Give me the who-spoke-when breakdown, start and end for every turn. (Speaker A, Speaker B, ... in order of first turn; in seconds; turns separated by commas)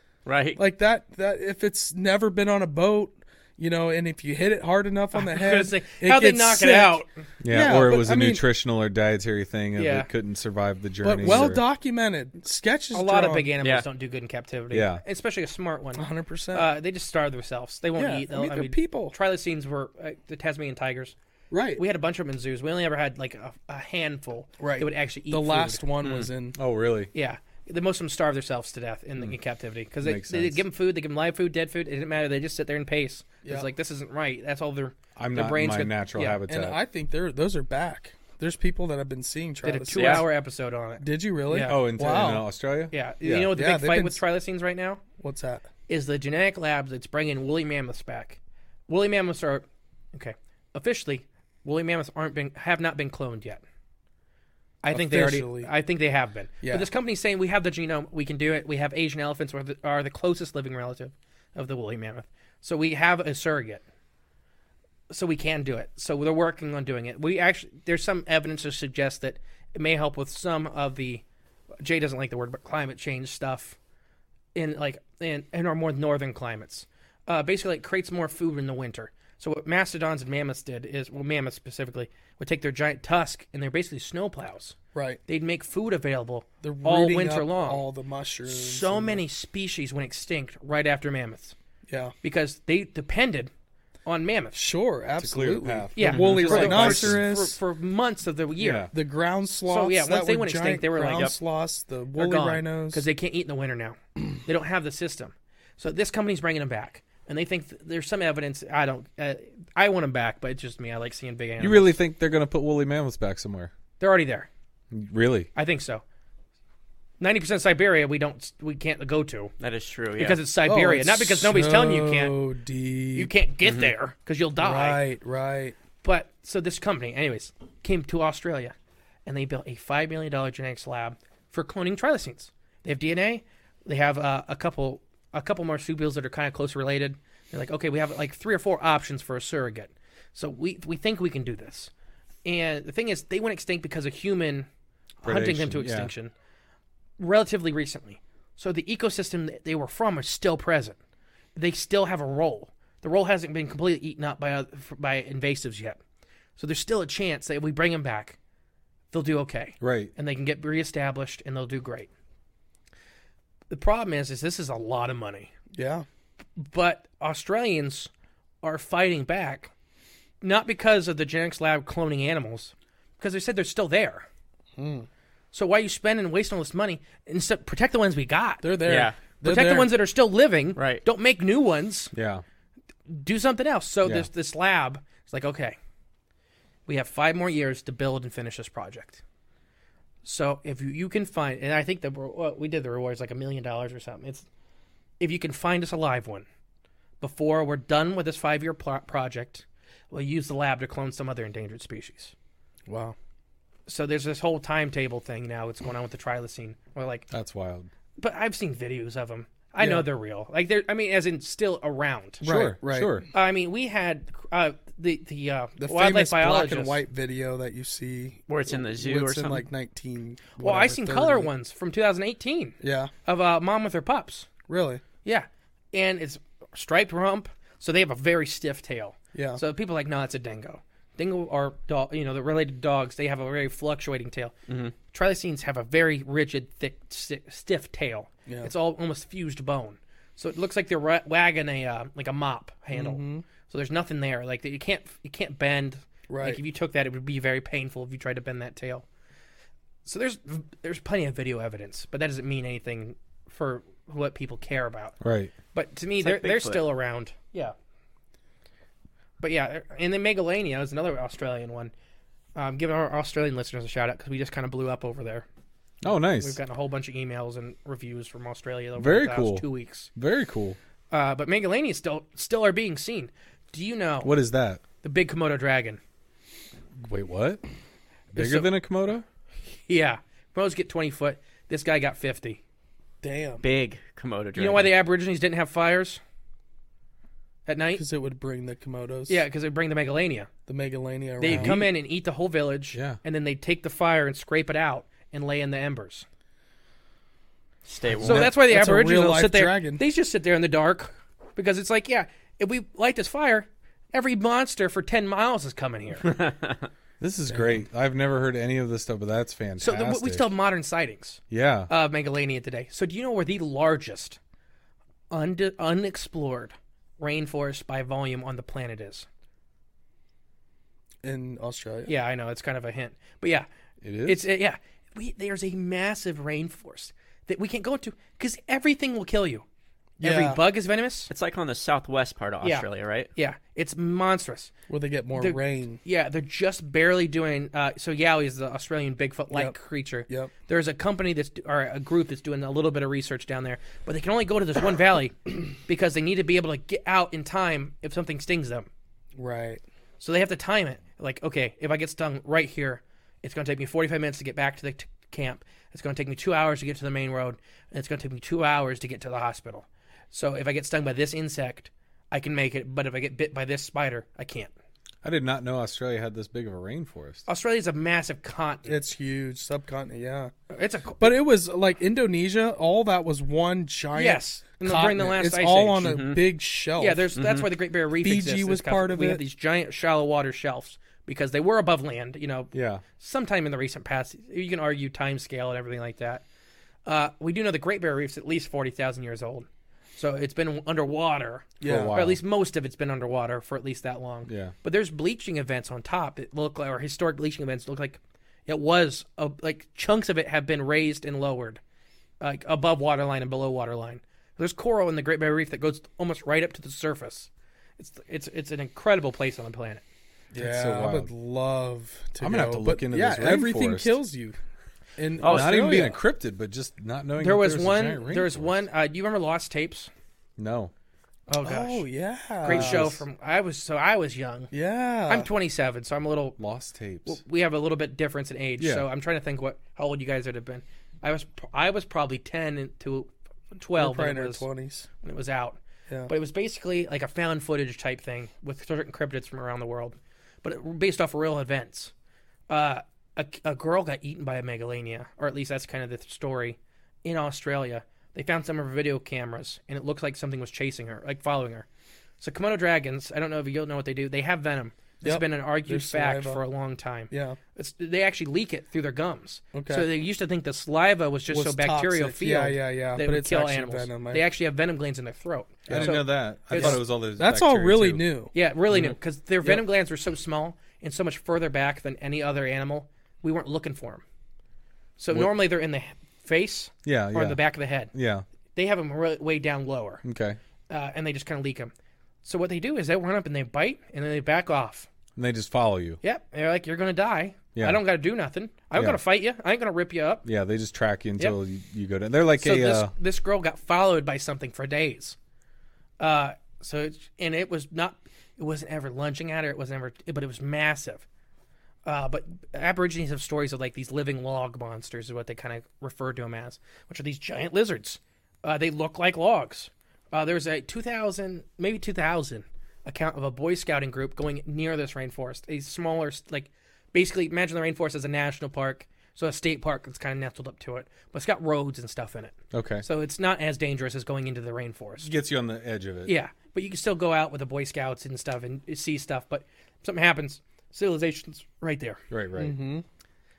Speaker A: 0.2-0.6, Speaker B: 0.6-8.4, Speaker C: 5.1-7.2, Speaker D: 7.4-11.6, Speaker C: 9.8-10.1, Speaker B: 11.0-13.5, Speaker C: 11.2-11.5, Speaker C: 12.9-21.1, Speaker D: 14.7-15.0, Speaker B: 15.9-16.7, Speaker B: 18.0-19.1, Speaker B: 21.5-21.8, Speaker C: 21.8-25.9, Speaker B: 24.6-26.6, Speaker A: 26.0-26.3, Speaker D: 26.5-27.1, Speaker C: 27.1-36.4, Speaker D: 30.0-30.6, Speaker D: 35.1-36.8, Speaker B: 36.5-40.3, Speaker C: 39.6-41.8, Speaker A: 39.9-40.2, Speaker B: 41.0-42.5, Speaker D: 41.6-43.5, Speaker C: 42.9-45.0, Speaker B: 43.4-44.2, Speaker B: 45.2-45.7, Speaker C: 45.9-53.6, Speaker C: 54.8-63.8, Speaker B: 54.9-55.7, Speaker B: 56.6-56.9, Speaker C: 65.1-71.2, Speaker C: 71.8-73.8, Speaker C: 74.5-87.8, Speaker B: 84.9-85.2, Speaker B: 86.6-89.2, Speaker C: 88.5-91.5, Speaker B: 91.9-92.1, Speaker C: 92.2-93.5, Speaker C: 94.0-94.6, Speaker B: 94.5-97.6, Speaker D: 95.2-97.2, Speaker C: 95.9-98.9, Speaker D: 98.6-98.9, Speaker B: 98.9-103.0, Speaker C: 99.7-101.3, Speaker C: 102.2-111.9, Speaker D: 111.6-113.7, Speaker C: 114.0-114.5, Speaker D: 114.9-115.5, Speaker C: 115.5-116.0, Speaker C: 117.2-119.5, Speaker A: 119.6-120.4, Speaker C: 120.2-122.3, Speaker B: 120.6-123.3, Speaker C: 123.1-125.0, Speaker A: 123.6-123.9, Speaker B: 124.6-125.8, Speaker C: 126.0-128.7, Speaker C: 129.2-141.9, Speaker C: 142.4-144.7, Speaker C: 145.2-146.3, Speaker D: 145.2-146.1, Speaker C: 147.2-151.0, Speaker C: 151.6-156.0, Speaker C: 156.6-158.4, Speaker C: 159.1-162.1, Speaker D: 159.8-160.1, Speaker C: 163.7-165.5, Speaker B: 165.7-166.1, Speaker C: 166.6-168.1, Speaker C: 168.6-169.7, Speaker C: 170.4-174.3, Speaker B: 174.8-175.1, Speaker C: 175.5-178.7, Speaker B: 178.6-179.9, Speaker A: 178.8-179.2, Speaker C: 179.4-182.1, Speaker A: 180.8-181.0, Speaker D: 182.1-182.4, Speaker C: 183.1-185.8, Speaker D: 184.0-184.3, Speaker C: 186.9-189.2, Speaker C: 190.2-194.4, Speaker C: 195.2-196.4, Speaker C: 197.2-202.3, Speaker B: 202.9-203.2, Speaker C: 203.9-207.3, Speaker D: 207.3-207.9, Speaker C: 208.2-212.4, Speaker B: 209.8-210.1, Speaker B: 212.4-213.2, Speaker D: 212.4-213.3, Speaker C: 213.3-217.0, Speaker B: 215.8-221.5, Speaker A: 218.5-219.7, Speaker C: 220.6-224.5, Speaker B: 222.8-223.1, Speaker B: 224.7-225.0, Speaker C: 225.2-249.1, Speaker B: 229.3-229.6, Speaker A: 234.7-234.9, Speaker B: 242.9-243.4, Speaker B: 246.3-246.6, Speaker C: 250.0-255.2, Speaker D: 255.2-255.5, Speaker C: 255.7-257.7, Speaker A: 256.2-256.8, Speaker C: 259.4-261.9, Speaker C: 262.6-265.4, Speaker D: 266.0-266.6, Speaker C: 266.1-270.1, Speaker D: 269.0-270.8, Speaker C: 271.1-274.3, Speaker D: 274.2-274.8, Speaker C: 275.0-276.0, Speaker D: 277.0-277.6, Speaker D: 278.3-279.2, Speaker C: 278.3-278.7, Speaker C: 279.7-282.6, Speaker B: 283.2-283.6, Speaker A: 283.6-284.9, Speaker C: 284.6-286.2, Speaker C: 287.6-288.0, Speaker B: 287.9-289.4, Speaker C: 289.3-290.5, Speaker B: 290.7-291.9, Speaker C: 291.4-296.2, Speaker D: 291.4-291.8, Speaker D: 292.9-293.2, Speaker A: 297.9-298.5, Speaker D: 298.1-298.5, Speaker C: 298.2-306.3, Speaker B: 298.2-300.0, Speaker A: 306.2-306.8, Speaker D: 307.2-310.5, Speaker B: 307.5-307.8, Speaker C: 309.8-314.4, Speaker D: 311.5-311.9, Speaker C: 315.3-319.3, Speaker B: 321.2-322.1, Speaker C: 322.1-323.7, Speaker D: 324.0-324.5, Speaker C: 324.2-329.6, Speaker B: 330.2-330.6, Speaker C: 330.2-331.3, Speaker A: 331.3-333.3, Speaker C: 332.6-334.7, Speaker B: 334.9-336.0, Speaker C: 335.4-348.9, Speaker B: 349.4-349.8, Speaker C: 350.2-364.7, Speaker D: 365.2-367.4, Speaker C: 367.4-369.0, Speaker B: 368.9-370.5, Speaker C: 370.7-371.3, Speaker B: 371.2-377.3, Speaker C: 374.1-376.2, Speaker A: 376.0-376.4, Speaker C: 377.0-386.4, Speaker A: 377.4-377.7, Speaker B: 378.2-379.4, Speaker D: 382.7-383.0, Speaker C: 387.0-401.8, Speaker D: 391.8-392.4, Speaker B: 391.8-392.1, Speaker D: 394.4-394.7, Speaker C: 402.4-410.0, Speaker D: 410.5-411.3, Speaker B: 410.5-414.6, Speaker D: 412.4-414.2, Speaker B: 415.2-416.2, Speaker A: 415.4-415.8, Speaker D: 415.4-418.8, Speaker C: 417.4-420.1, Speaker D: 420.6-420.9, Speaker C: 421.5-422.1, Speaker B: 421.6-423.2, Speaker C: 422.6-424.7, Speaker D: 422.7-423.2, Speaker B: 424.7-425.5, Speaker C: 425.3-426.6, Speaker D: 426.6-427.4, Speaker C: 427.2-434.6, Speaker D: 428.8-429.1, Speaker B: 434.0-435.1, Speaker C: 435.2-442.1, Speaker C: 442.7-451.9, Speaker C: 452.4-467.0, Speaker B: 455.2-456.6, Speaker B: 457.3-457.6, Speaker B: 459.7-460.1, Speaker B: 461.5-464.4, Speaker B: 465.9-468.5, Speaker D: 465.9-468.3, Speaker C: 468.5-474.2, Speaker C: 475.2-478.1, Speaker D: 477.0-477.6, Speaker D: 478.1-478.4, Speaker C: 478.7-480.2, Speaker D: 480.2-480.6, Speaker C: 480.9-481.9, Speaker C: 482.4-485.1, Speaker D: 485.4-486.2, Speaker C: 486.2-490.4, Speaker D: 488.9-489.2, Speaker D: 490.4-493.1, Speaker C: 492.6-495.4, Speaker C: 496.2-501.2, Speaker C: 502.1-525.3, Speaker D: 522.7-523.0, Speaker D: 525.2-526.3, Speaker C: 526.2-532.2, Speaker D: 532.3-532.8, Speaker B: 532.6-533.0